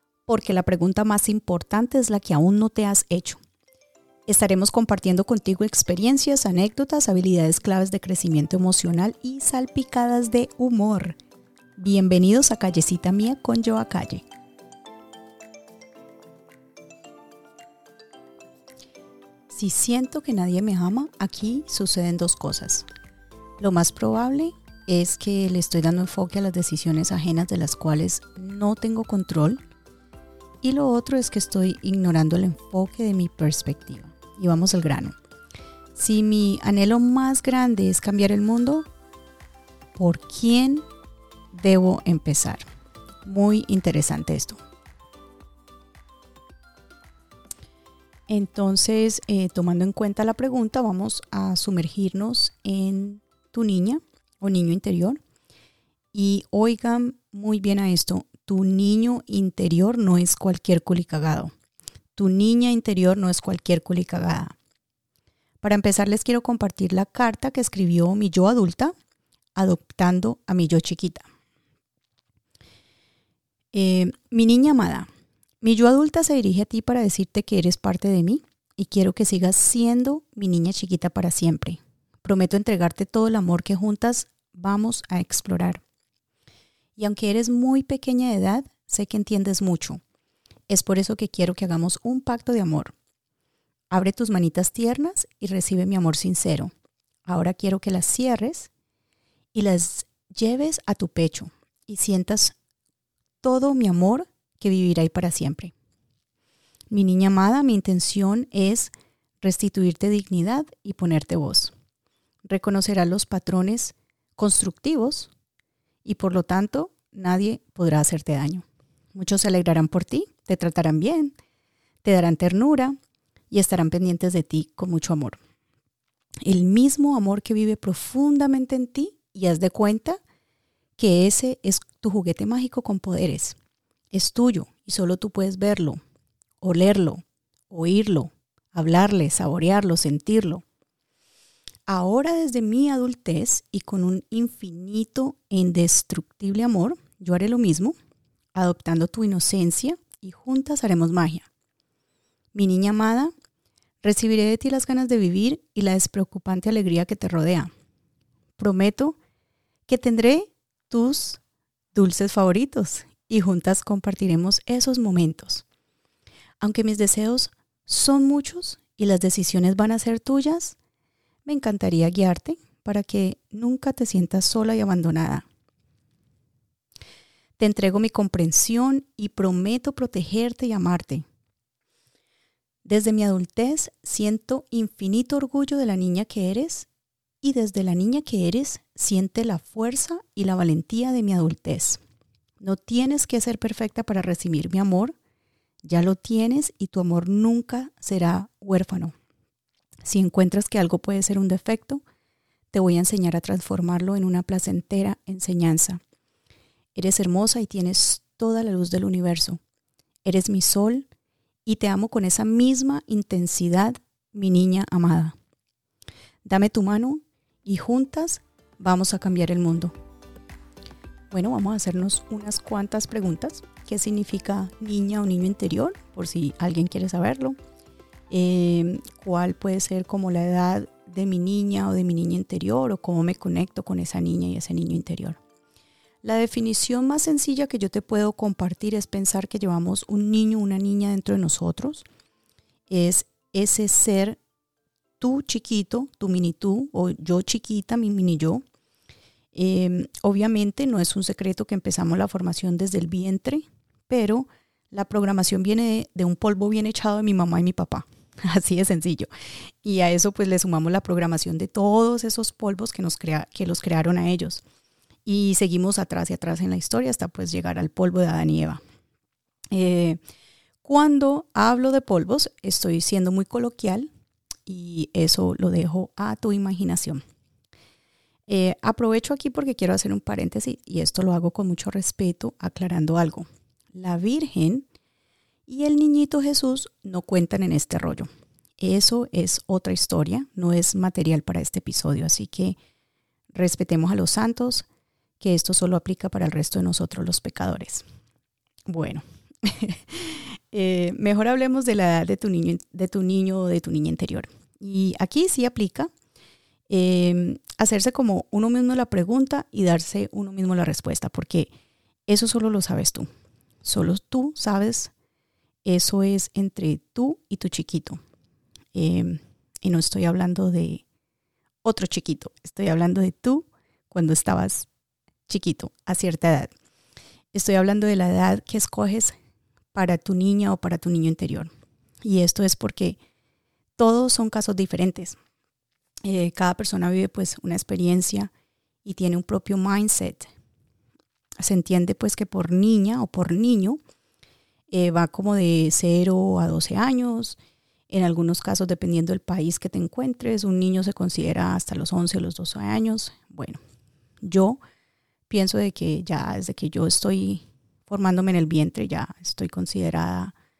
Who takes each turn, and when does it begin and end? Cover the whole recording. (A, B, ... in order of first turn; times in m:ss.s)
0:00.3-0:03.4 A
0:04.3-0:11.2 A
0:11.8-0:14.2 A
0:19.5-0:22.9 A
0:23.6-0:29.6 A
0:30.6-0:35.1 A
0:36.0-0:38.9 A
0:40.0-0:40.8 A
0:41.5-0:42.6 A
0:43.2-0:44.6 A
0:48.3-0:55.2 A
0:56.1-1:01.5 A
1:02.2-1:04.6 A
1:05.6-1:08.9 A
1:09.6-1:11.3 A
1:13.7-1:15.1 A
1:15.6-1:25.8 A
1:27.0-1:30.0 A
1:30.7-1:33.0 A
1:33.9-1:36.7 A
1:37.3-1:38.7 A
1:39.5-1:42.6 A
1:43.4-1:45.7 A
1:46.9-1:51.7 A
1:52.4-1:55.3 A
1:56.0-2:01.3 A
2:02.0-2:03.0 A
2:03.5-2:05.4 A
2:06.4-2:10.2 A
2:11.0-2:13.6 A
2:14.1-2:16.0 A
2:16.6-2:20.6 A
2:21.9-2:28.0 A
2:28.6-2:31.5 A
2:32.5-2:33.3 A
2:34.0-2:37.7 A
2:38.6-2:39.2 A
2:39.9-2:41.4 A
2:41.9-2:45.6 A
2:46.6-2:50.8 A
2:51.4-2:55.5 A
2:57.6-3:01.2 A
3:02.8-3:06.9 A
3:07.4-3:12.0 A
3:12.6-3:15.2 A
3:15.8-3:19.1 A
3:20.0-3:22.0 A
3:22.7-3:26.0 A
3:26.9-3:29.6 A
3:30.2-3:31.1 A
3:31.6-3:35.4 A
3:36.4-3:39.9 A
3:41.3-3:47.6 A
3:48.3-3:55.4 A
3:56.2-4:02.1 A
4:02.9-4:04.4 A
4:05.2-4:08.6 A
4:09.5-4:19.3 A
4:19.8-4:24.6 A
4:25.2-4:28.8 A
4:29.7-4:30.2 A
4:30.8-4:34.1 A
4:34.7-4:37.2 A
4:38.5-4:44.9 A
4:45.7-4:52.8 A
4:53.5-4:54.9 A
4:55.4-4:58.0 A
4:58.9-5:06.1 A
5:06.9-5:11.7 A
5:12.3-5:13.3 A
5:13.8-5:15.1 A
5:15.8-5:18.2 A
5:18.9-5:21.0 A
5:21.8-5:24.9 A
5:25.5-5:26.7 A
5:27.5-5:29.4 A
5:29.9-5:31.7 A
5:32.2-5:33.2 A
5:34.0-5:35.4 A
5:36.2-5:38.5 A
5:39.0-5:40.5 A
5:41.6-5:44.0 A
5:44.9-5:47.6 A
5:48.1-5:53.8 A
5:54.4-5:54.8 A
5:55.5-6:00.6 A